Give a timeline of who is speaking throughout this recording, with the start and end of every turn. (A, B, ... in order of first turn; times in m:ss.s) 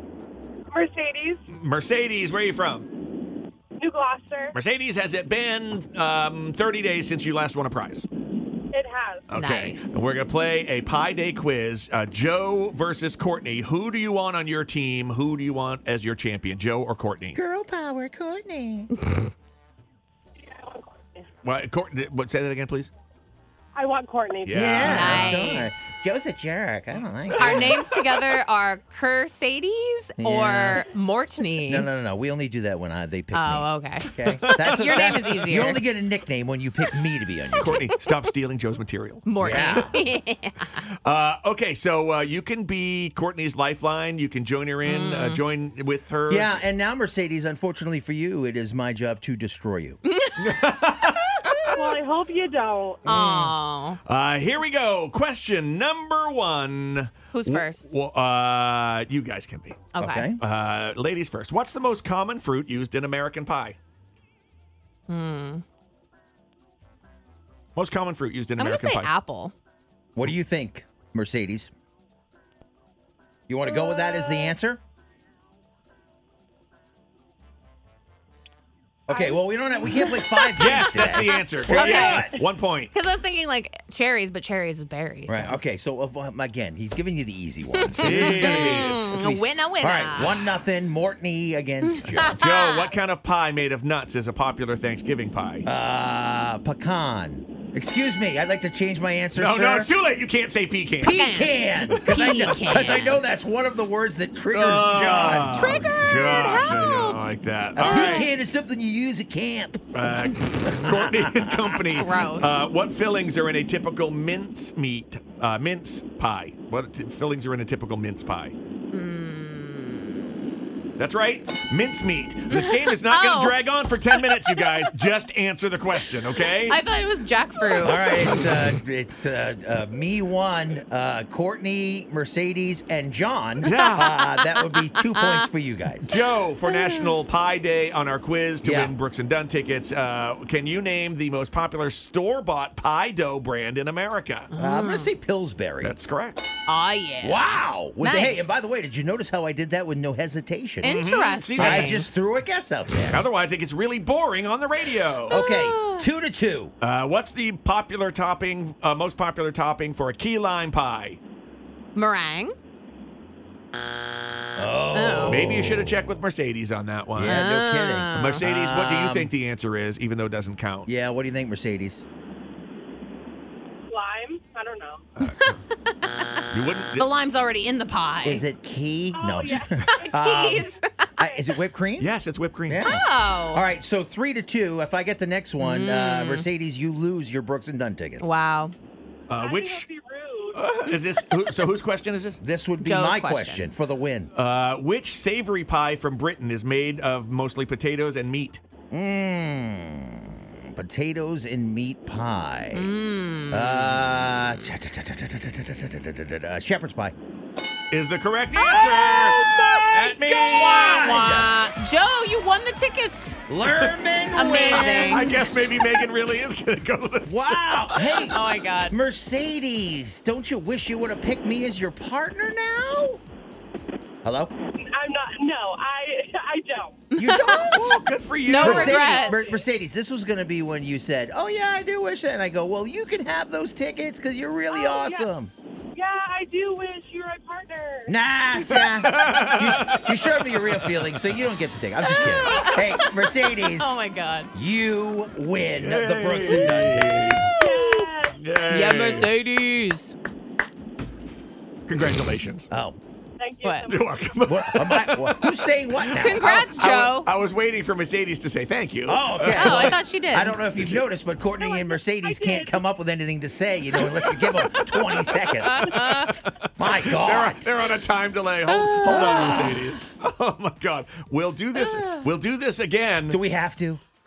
0:00.7-0:01.4 A
0:01.5-0:02.9 B
0:03.8-0:04.6 A
0:04.5-0:08.1 B
0:08.7-0:09.3 A
0:09.3-0:17.4 B
0:09.3-0:10.0 C
0:17.4-0:18.9 D
0:19.0-0:19.3 C
0:20.4-0:21.3 A
0:21.4-0:22.9 B
0:23.8-0:25.0 A
0:24.4-0:25.4 B
0:24.5-0:27.9 D
0:24.8-0:25.9 C
0:27.0-0:28.2 B
0:27.4-0:31.9 C
0:30.2-0:30.9 D
0:31.7-0:37.9 D
0:33.3-0:35.8 C
0:34.2-0:35.3 B
0:37.6-0:40.0 B
0:37.8-0:38.1 C
0:39.2-0:40.8 C
0:39.4-0:40.0 D
0:40.7-0:46.6 B
0:44.8-0:45.4 C
0:46.3-0:50.0 D
0:50.0-0:51.8 C
0:50.4-0:51.8 B
0:51.7-0:53.2 A
0:53.1-0:54.0 C
0:53.1-0:53.5 D
0:54.0-1:03.8 B
0:57.3-0:57.9 C
0:59.9-1:00.4 C
1:00.0-1:00.4 D
1:05.1-1:05.6 C
1:07.8-1:09.1 B
1:08.6-1:09.5 C
1:10.2-1:11.7 D
1:13.5-1:14.8 D
1:13.7-1:14.5 C
1:19.1-1:20.1 A
1:19.1-1:22.4 D
1:19.9-1:22.4 C
1:20.6-1:23.0 B
1:22.9-1:25.6 C
1:25.3-1:32.4 D
1:27.7-1:30.4 C
1:27.9-1:29.2 B
1:31.8-1:32.9 C
1:32.2-1:35.7 B
1:35.6-1:39.9 D
1:39.4-1:41.2 B
1:41.0-1:45.9 D
1:41.0-1:43.2 C
1:41.9-1:43.1 B
1:44.5-1:48.3 B
1:45.4-1:47.2 C
1:47.8-1:51.8 D
1:47.8-1:48.3 C
1:49.9-1:58.6 B
1:51.9-1:52.6 C
1:58.9-2:00.4 C
2:01.0-2:06.8 B
2:02.5-2:05.1 C
2:06.3-2:08.6 C
2:07.8-2:16.1 D
2:13.6-2:14.1 B
2:13.7-2:15.5 C
2:16.0-2:24.5 B
2:16.6-2:17.2 C
2:18.6-2:19.0 D
2:24.5-2:25.1 C
2:24.5-2:26.0 D
2:25.8-2:26.4 B
2:26.7-2:28.5 C
2:27.2-2:31.0 D
2:30.8-2:32.1 C
2:30.8-2:32.1 B
2:31.5-2:33.3 D
2:33.1-2:35.4 B
2:35.3-2:36.1 C
2:35.3-2:36.7 D
2:36.8-2:41.2 B
2:42.0-2:42.5 C
2:44.6-2:46.0 D
2:44.9-2:45.5 C
2:45.3-2:47.5 B
2:47.2-2:49.3 D
2:47.2-2:48.5 C
2:48.1-2:50.9 B
2:50.9-2:52.0 D
2:53.9-2:55.0 A
2:55.2-2:55.6 B
2:55.3-2:58.5 C
2:56.5-2:57.1 B
2:58.2-3:02.1 D
2:59.1-3:00.8 A
2:59.8-3:01.4 C
3:02.0-3:02.9 B
3:02.7-3:08.3 D
3:02.8-3:03.6 C
3:05.6-3:06.5 C
3:08.2-3:08.7 C
3:09.3-3:09.9 B
3:09.4-3:10.6 A
3:10.6-3:12.4 B
3:12.4-3:14.3 D
3:12.8-3:13.7 C
3:14.3-3:18.6 B
3:18.9-3:22.9 D
3:22.7-3:24.4 C
3:23.5-3:27.2 D
3:27.9-3:29.4 B
3:28.6-3:31.5 D
3:29.9-3:31.5 B
3:30.2-3:33.4 C
3:33.5-3:35.7 D
3:33.6-3:33.9 B
3:34.4-3:35.4 C
3:35.0-3:38.0 B
3:37.2-3:43.2 D
3:37.9-3:39.0 C
3:44.2-3:44.5 D
3:44.7-3:47.0 A
3:47.1-3:47.9 C
3:47.2-3:48.0 D
3:47.7-3:49.1 B
3:48.5-3:49.5 C
3:48.6-3:55.5 D
3:49.0-3:49.6 A
3:54.7-3:55.3 A
3:55.9-3:58.1 A
3:58.1-4:04.0 D
3:58.6-4:01.2 B
4:02.0-4:04.5 C
4:04.5-4:07.5 D
4:05.8-4:07.5 B
4:07.5-4:08.1 C
4:07.6-4:08.4 A
4:08.4-4:09.3 B
4:08.7-4:10.1 C
4:11.9-4:12.7 B
4:12.7-4:13.0 D
4:13.4-4:14.2 A
4:13.6-4:13.9 C
4:13.9-4:15.6 B
4:14.4-4:16.6 D
4:16.1-4:17.3 C
4:16.3-4:20.0 B
4:19.1-4:27.7 D
4:19.5-4:20.6 C
4:20.8-4:21.0 B
4:21.6-4:22.8 A
4:24.0-4:33.4 B
4:25.6-4:26.4 C
4:28.7-4:29.8 C
4:29.0-4:29.8 D
4:31.8-4:32.3 C
4:33.3-4:34.0 D